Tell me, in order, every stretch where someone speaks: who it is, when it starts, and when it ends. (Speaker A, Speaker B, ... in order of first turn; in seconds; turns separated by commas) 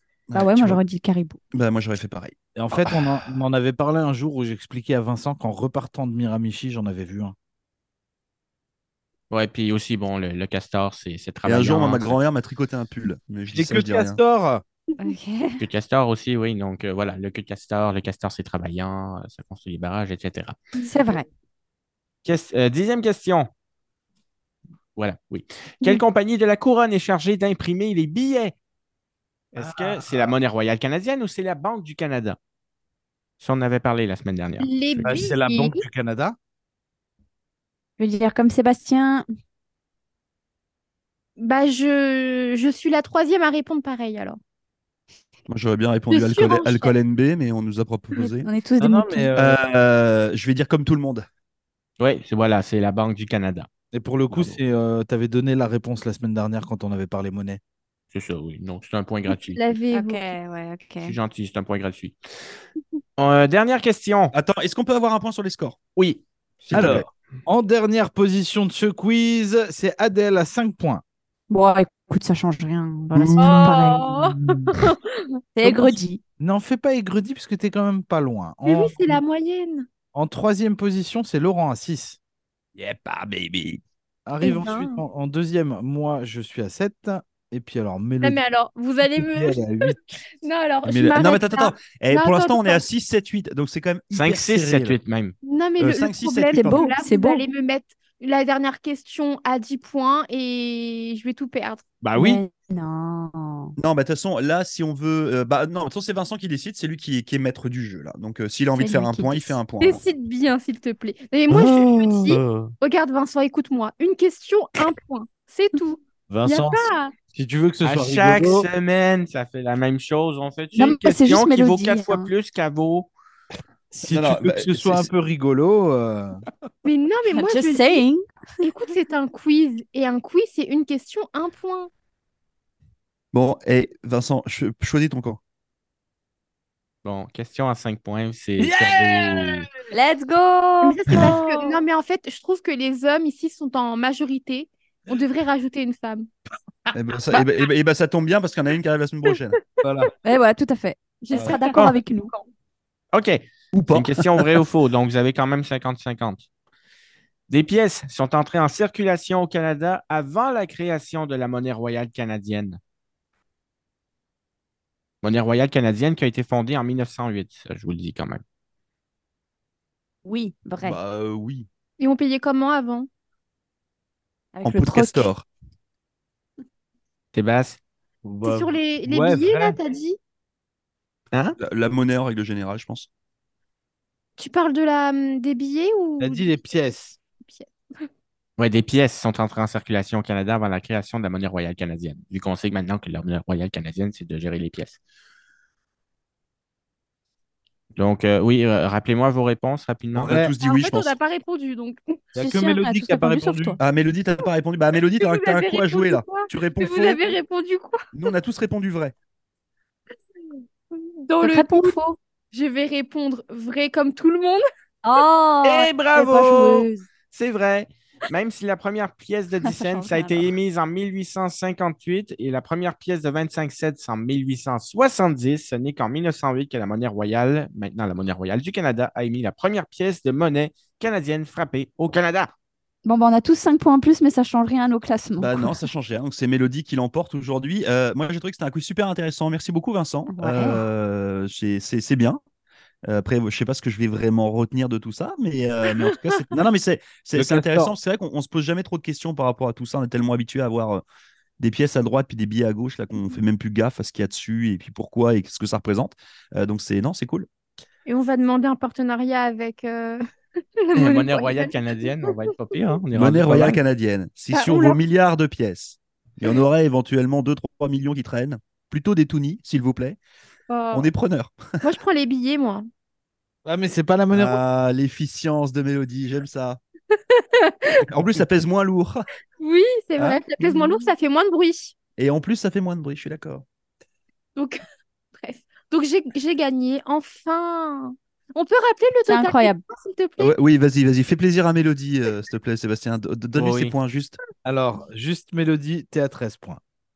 Speaker A: 0.3-0.8, Speaker B: 0.3-1.4, Speaker A: 1.5-3.1, Speaker C: 2.5-7.3, Speaker D: 9.3-12.2, Speaker A: 11.4-14.2, Speaker C: 13.5-14.6, Speaker B: 15.0-15.6, Speaker D: 15.6-20.6, Speaker E: 20.8-21.2, Speaker B: 20.9-21.2, Speaker D: 22.2-23.5, Speaker D: 24.9-28.5, Speaker D: 29.5-32.4, Speaker C: 29.6-30.3, Speaker D: 33.4-35.3, Speaker E: 34.6-35.8, Speaker C: 35.0-36.4, Speaker B: 38.0-39.2, Speaker E: 41.4-44.4, Speaker A: 45.5-48.5, Speaker E: 46.1-46.9, Speaker B: 48.4-49.3, Speaker C: 48.8-49.6, Speaker A: 49.3-51.2, Speaker D: 52.0-53.7, Speaker C: 53.9-57.6, Speaker D: 54.3-54.6, Speaker D: 58.1-59.6, Speaker E: 59.3-60.3, Speaker B: 59.9-61.1, Speaker D: 61.0-62.1, Speaker D: 63.2-64.3, Speaker A: 64.3-65.8, Speaker D: 66.0-67.1, Speaker A: 66.7-67.0, Speaker C: 66.7-71.0, Speaker B: 71.5-74.2, Speaker A: 73.1-73.8, Speaker E: 73.4-75.1, Speaker B: 75.5-76.2, Speaker C: 75.6-79.2, Speaker E: 78.6-79.9, Speaker C: 80.1-82.2, Speaker A: 82.8-83.8, Speaker C: 84.2-88.4, Speaker E: 84.4-85.0, Speaker E: 88.2-92.8, Speaker C: 89.1-90.0, Speaker A: 90.8-95.0, Speaker D: 94.1-95.3, Speaker E: 95.4-101.8, Speaker A: 95.8-96.9, Speaker B: 96.5-97.4, Speaker D: 102.0-102.4, Speaker B: 102.1-103.7, Speaker A: 103.8-110.0, Speaker B: 108.8-109.6, Speaker E: 109.8-117.1, Speaker C: 111.5-112.7, Speaker C: 116.3-118.7, Speaker D: 117.8-123.1, Speaker B: 120.8-122.3, Speaker C: 123.9-126.4, Speaker A: 124.1-125.1, Speaker E: 126.8-128.0, Speaker B: 127.3-128.2, Speaker E: 128.6-131.9, Speaker A: 133.3-135.4, Speaker D: 137.0-139.7, Speaker C: 138.6-139.7, Speaker B: 139.9-141.8, Speaker E: 140.8-146.3, Speaker A: 146.9-149.6, Speaker E: 149.6-149.9, Speaker C: 149.8-150.1, Speaker B: 150.2-152.3, Speaker E: 151.2-152.5, Speaker D: 153.1-156.4, Speaker A: 153.7-154.6, Speaker D: 157.5-162.8, Speaker D: 165.2-168.4, Speaker B: 170.2-171.0, Speaker A: 170.8-171.7, Speaker E: 172.0-173.1, Speaker B: 174.5-175.3, Speaker A: 174.6-175.4, Speaker D: 177.3-177.8, Speaker C: 178.2-179.8, Speaker E: 178.4-180.2, Speaker A: 181.6-183.1, Speaker E: 184.4-186.5, Speaker C: 186.2-187.2, Speaker E: 187.4-188.1, Speaker D: 188.6-195.0, Speaker D: 197.9-200.4, Speaker A: 200.1-201.2, Speaker C: 200.2-200.5, Speaker E: 200.6-202.2, Speaker C: 202.3-203.8, Speaker B: 202.4-203.8, Speaker A: 203.8-207.3, Speaker E: 205.2-208.0, Speaker A: 208.1-209.1, Speaker E: 210.9-211.9, Speaker B: 211.4-212.2, Speaker E: 212.5-214.6, Speaker B: 215.0-217.0, Speaker D: 215.6-232.5, Speaker B: 219.6-220.5, Speaker B: 233.0-235.8, Speaker A: 235.4-242.4, Speaker B: 240.3-240.8, Speaker A: 243.1-251.0, Speaker C: 247.3-247.9, Speaker A: 251.6-257.5, Speaker E: 258.1-260.2, Speaker E: 260.8-262.0, Speaker D: 260.9-263.8, Speaker A: 263.1-270.2, Speaker E: 264.5-265.0, Speaker E: 270.7-271.1, Speaker A: 270.9-271.8, Speaker E: 271.8-272.9, Speaker C: 273.6-274.6, Speaker A: 274.3-276.8, Speaker E: 277.1-278.0, Speaker A: 278.1-279.3, Speaker E: 279.6-281.9, Speaker A: 280.2-281.1, Speaker A: 282.2-283.6, Speaker E: 285.3-290.5, Speaker B: 289.2-289.8, Speaker A: 290.4-294.4, Speaker D: 293.5-293.9, Speaker C: 294.6-296.8